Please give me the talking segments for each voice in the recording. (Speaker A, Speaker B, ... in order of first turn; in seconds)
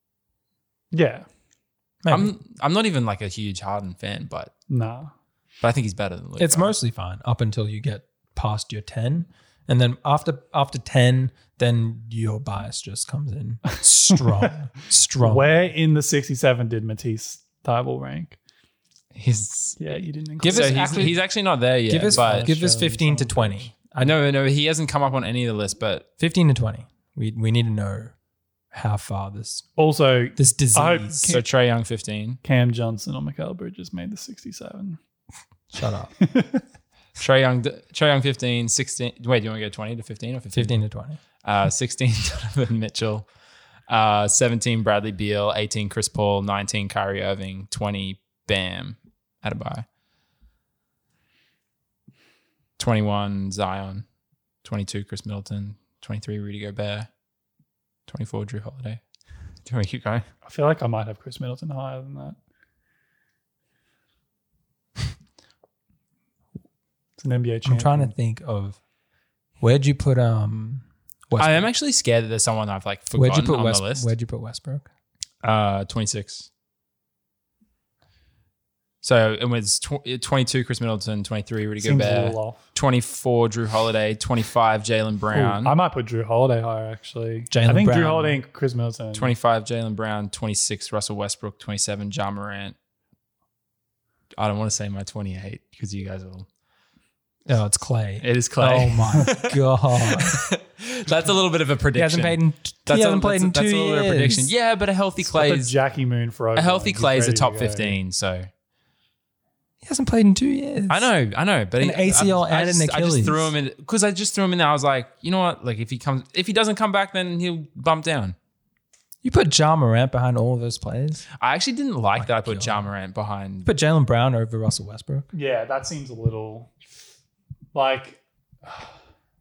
Speaker A: 0.9-1.3, 4.7-5.1, 14.1-14.5, 15.2-18.4, 19.8-21.1, 22.0-23.7, 29.8-31.4, 32.4-35.0, 36.2-36.6, 60.5-62.4, 67.2-68.1, 81.8-82.6, 85.3-89.3, 105.2-108.0, 125.3-126.7, 127.7-128.9
Speaker B: 2.0-2.3, 6.4-15.5, 20.4-21.2, 21.9-24.2, 26.2-28.1, 28.7-29.7, 30.4-31.3, 35.7-36.1, 40.5-41.2, 67.7-68.8, 69.6-71.7, 73.1-74.9, 87.5-88.4, 97.5-100.4, 101.9-104.5, 109.8-111.1, 111.8-113.5, 119.2-121.2, 122.2-122.9, 123.7-125.3
Speaker C: 2.1-4.5, 5.6-6.7, 19.1-19.8, 20.4-22.5, 24.0-26.1, 31.3-32.4, 37.2-40.8, 41.4-43.3, 43.9-49.9, 52.8-54.1, 54.6-57.1, 58.1-59.0, 59.6-60.3, 71.4-74.1, 75.4-76.5, 79.0-85.8, 89.1-92.8, 94.4-96.5, 98.2-105.7, 106.5-108.5, 110.9-118.4, 121.4-123.7